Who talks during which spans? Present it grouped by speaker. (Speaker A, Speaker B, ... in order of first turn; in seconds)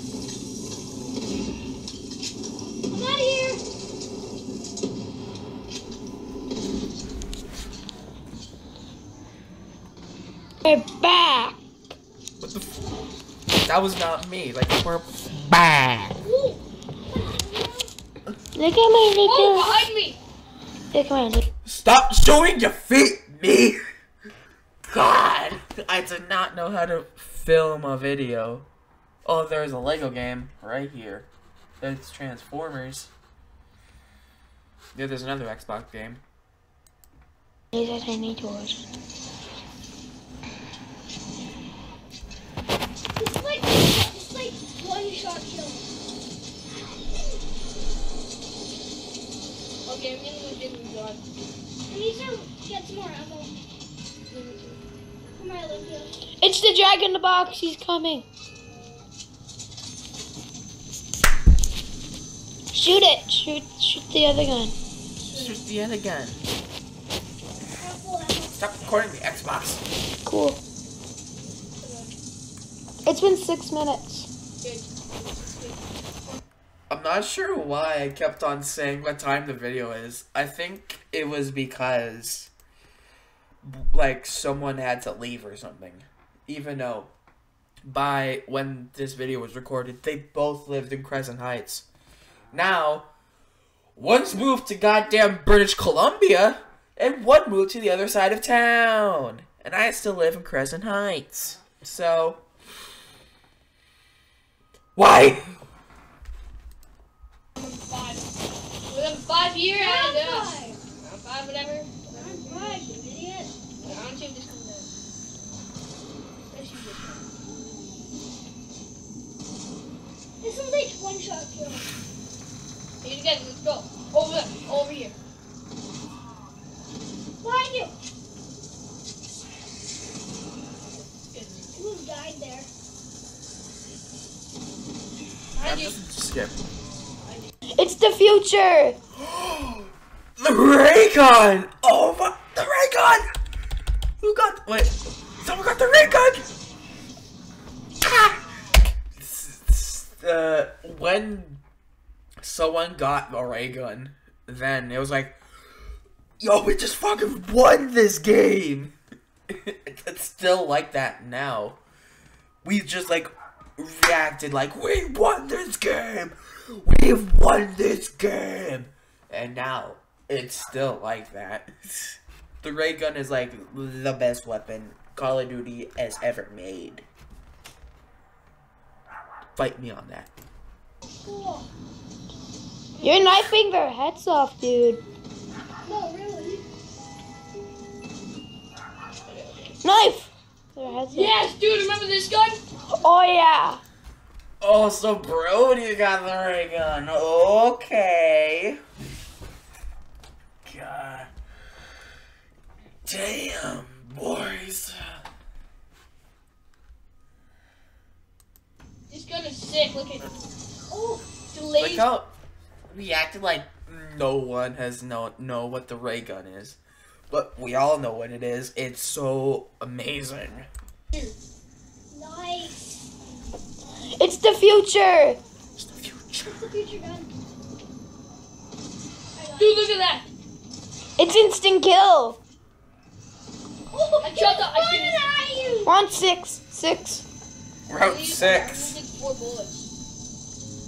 Speaker A: 2.9-3.6, 16.2-17.9, 43.2-45.9, 51.9-53.5, 55.3-56.2, 67.8-68.6, 109.8-110.8, 112.0-113.5, 117.4-118.0, 120.4-121.9, 127.4-127.9, 131.8-132.7, 181.2-181.7, 185.8-186.6, 210.9-211.3, 222.1-223.1, 226.4-227.3, 229.3-230.0, 233.9-235.9
Speaker B: 10.7-11.6, 18.6-19.8, 20.9-21.5, 37.7-38.8, 56.4-58.3, 62.7-64.8, 70.2-70.6, 73.1-74.3, 137.8-139.0, 183.0-185.0, 189.8-191.3, 192.9-193.8, 224.2-225.4, 231.2-232.4, 235.8-237.2
Speaker C: 12.4-12.8, 13.6-16.2, 21.6-23.8, 24.9-28.7, 29.2-31.3, 31.8-33.1, 35.0-36.2, 65.3-66.4, 68.6-69.8, 76.9-82.5, 83.6-87.1, 87.8-91.9, 92.5-93.1, 94.0-102.4, 105.0-105.6, 135.6-136.6, 139.2-143.3, 144.2-146.5, 148.0-148.4, 149.1-151.6, 152.4-155.4, 156.4-159.0, 159.5-161.8, 162.6-177.1, 179.6-180.3, 194.6-198.8, 200.6-201.3, 203.1-205.2, 211.8-212.3, 212.9-216.8, 217.3-220.7, 225.8-226.6, 237.9-239.0
Speaker D: 19.2-20.2, 49.9-51.2, 54.3-54.8, 65.2-65.6, 71.8-72.2, 74.6-76.4, 107.5-108.3, 108.9-112.9, 113.8-114.9, 116.5-117.2, 123.0-125.2, 131.0-131.8, 135.6-136.0, 137.2-137.5, 191.1-192.6, 209.1-210.3, 211.5-212.1, 229.6-230.3, 234.2-235.6, 237.9-239.9